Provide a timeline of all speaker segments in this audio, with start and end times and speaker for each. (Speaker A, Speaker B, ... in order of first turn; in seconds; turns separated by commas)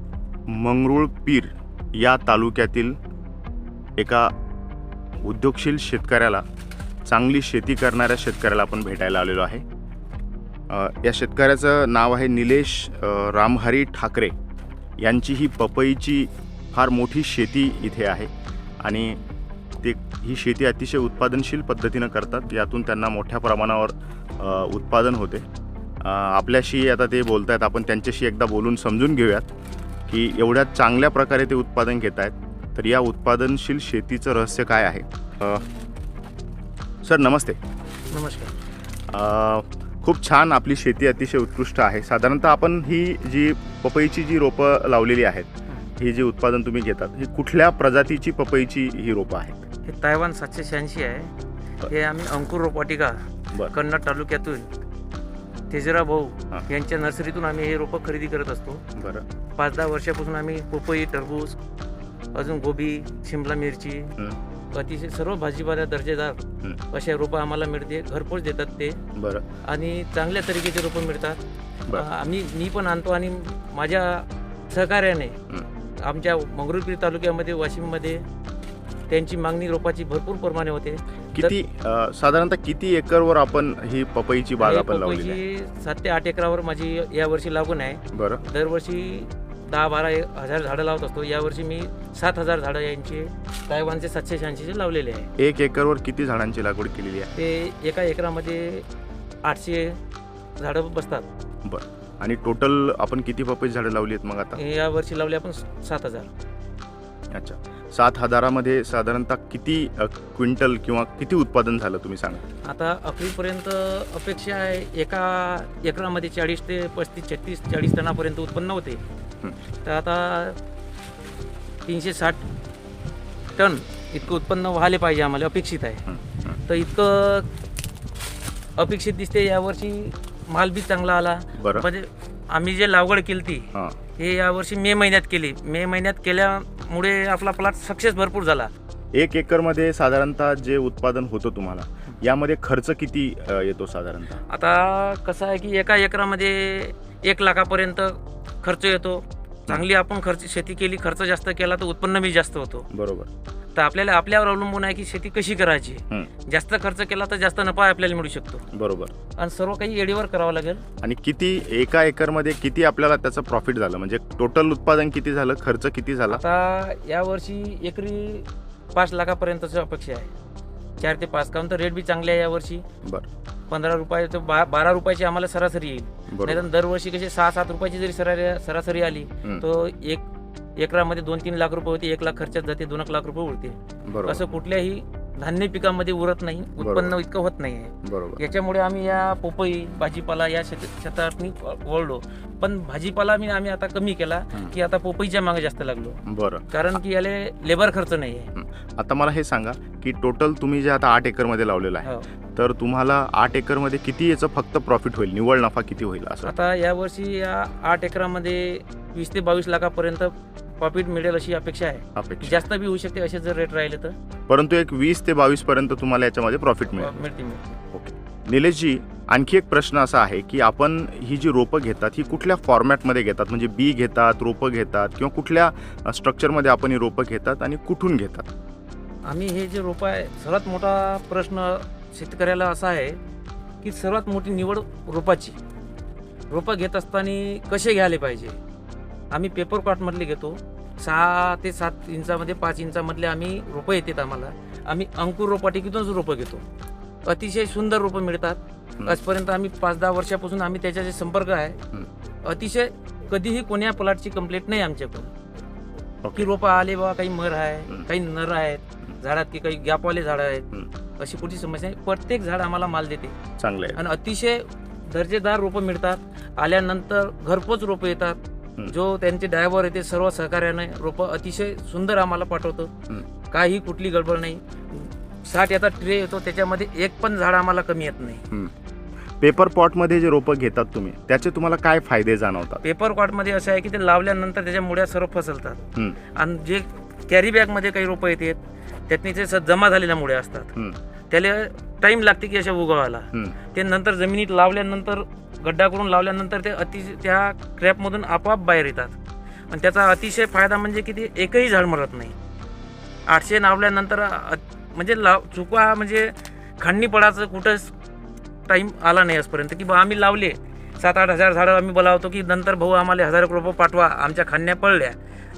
Speaker A: 0.5-3.0, Speaker A: 4.0-4.3, Speaker A: 5.2-6.4, Speaker A: 7.1-9.6, Speaker A: 10.7-14.3, Speaker A: 15.0-18.3, Speaker A: 18.8-19.2, Speaker A: 19.8-25.4, Speaker A: 26.0-29.5, Speaker A: 30.1-35.7, Speaker A: 37.0-37.6, Speaker B: 38.1-38.6, Speaker A: 39.1-49.6, Speaker B: 49.9-51.3, Speaker B: 51.9-54.7, Speaker B: 55.7-58.9, Speaker A: 59.0-59.2, Speaker B: 59.6-61.6, Speaker B: 62.3-64.2, Speaker B: 64.7-69.0, Speaker A: 69.2-69.4, Speaker B: 69.6-71.4, Speaker B: 71.9-75.4, Speaker B: 76.0-78.2, Speaker B: 79.1-81.5, Speaker A: 81.3-85.4, Speaker B: 84.6-95.3, Speaker A: 88.1-88.4, Speaker A: 95.4-97.3, Speaker B: 97.3-98.9, Speaker B: 99.4-100.0, Speaker B: 100.6-101.3, Speaker A: 101.7-104.6, Speaker B: 104.6-106.3, Speaker A: 107.3-112.5, Speaker B: 112.6-119.0, Speaker B: 119.8-120.6, Speaker B: 121.9-122.5, Speaker B: 123.6-126.1, Speaker A: 126.1-126.6, Speaker B: 126.7-127.5, Speaker B: 128.8-138.7, Speaker A: 131.6-131.9, Speaker A: 139.1-144.4, Speaker B: 144.5-152.9, Speaker A: 152.9-153.3, Speaker B: 153.8-158.7, Speaker A: 158.7-159.1, Speaker B: 159.4-160.8, Speaker A: 161.0-166.4, Speaker B: 166.3-170.3, Speaker B: 171.0-172.8, Speaker B: 173.7-180.2, Speaker A: 176.3-176.7, Speaker B: 180.8-196.2, Speaker A: 184.1-184.5, Speaker A: 186.8-187.2, Speaker A: 188.0-188.4, Speaker A: 196.3-196.7, Speaker B: 196.7-198.5, Speaker A: 198.6-206.5, Speaker B: 206.4-214.2, Speaker A: 212.2-212.7, Speaker A: 214.5-217.2, Speaker B: 216.9-217.8, Speaker A: 217.9-228.5, Speaker B: 229.3-233.2, Speaker B: 233.8-235.6, Speaker B: 236.5-238.6, Speaker B: 239.3-246.6, Speaker B: 247.2-251.8, Speaker B: 252.4-255.3, Speaker A: 256.2-256.5, Speaker B: 256.4-263.4, Speaker A: 263.6-264.0, Speaker B: 263.9-272.9, Speaker B: 273.5-278.4, Speaker A: 279.4-282.8, Speaker B: 282.8-290.8, Speaker B: 291.3-299.2, Speaker B: 299.7-302.4, Speaker B: 303.3-307.9, Speaker B: 308.7-315.2